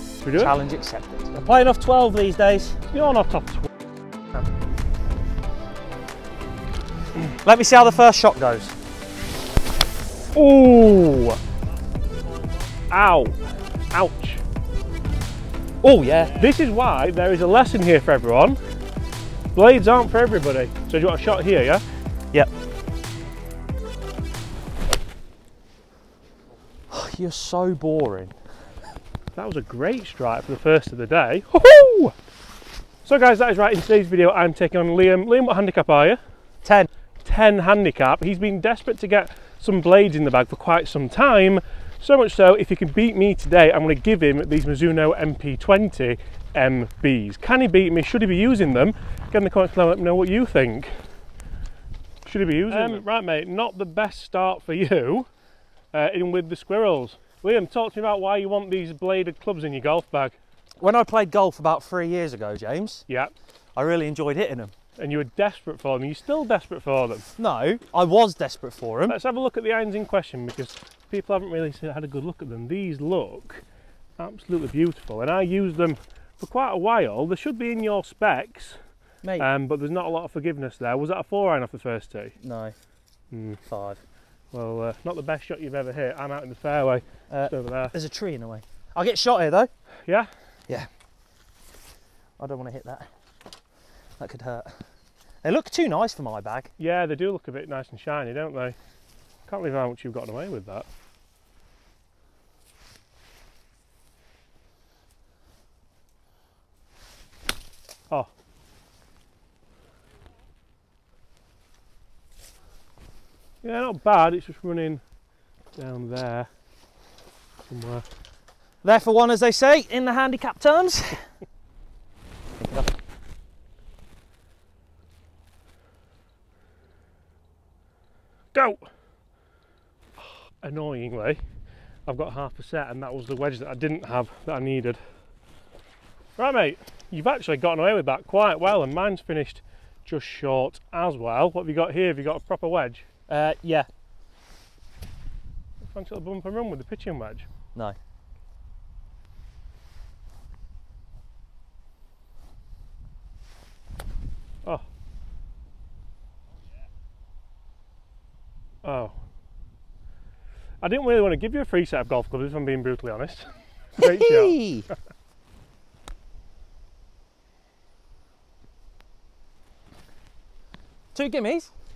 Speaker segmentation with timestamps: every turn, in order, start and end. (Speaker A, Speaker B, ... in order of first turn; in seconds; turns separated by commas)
Speaker A: 0.2-0.5, Speaker B: 0.3-2.8, Speaker A: 2.9-3.7, Speaker B: 7.4-8.8, Speaker A: 10.3-11.4, Speaker A: 12.9-14.4, Speaker B: 15.8-16.4, Speaker A: 16.3-18.6, Speaker A: 19.5-21.8, Speaker B: 26.9-28.4, Speaker A: 29.3-32.1, Speaker A: 33.0-36.2, Speaker B: 36.6-36.9, Speaker A: 37.2-51.0, Speaker A: 52.2-55.3, Speaker B: 52.7-53.0, Speaker A: 55.9-60.4, Speaker B: 60.8-63.0, Speaker B: 63.8-64.7, Speaker A: 65.0-67.3, Speaker B: 67.4-69.2, Speaker A: 69.1-73.6, Speaker A: 74.2-78.8, Speaker B: 79.2-79.5, Speaker A: 79.4-82.3, Speaker B: 82.4-82.7, Speaker A: 83.3-83.6, Speaker B: 83.7-84.0, Speaker A: 84.5-87.9, Speaker B: 87.3-89.7, Speaker B: 92.4-93.1, Speaker B: 94.2-94.9, Speaker B: 95.4-96.7, Speaker A: 96.8-98.8, Speaker A: 99.5-100.9, Speaker A: 113.6-115.0, Speaker A: 115.7-116.5, Speaker A: 117.7-118.0, Speaker B: 118.8-121.3, Speaker B: 122.6-123.0, Speaker A: 128.5-128.9, Speaker A: 130.6-131.4, Speaker A: 132.1-135.0, Speaker A: 136.4-143.1, Speaker B: 143.3-143.9, Speaker A: 145.8-147.5, Speaker A: 158.8-159.1, Speaker A: 160.8-164.6, Speaker B: 164.0-164.9, Speaker B: 171.1-171.7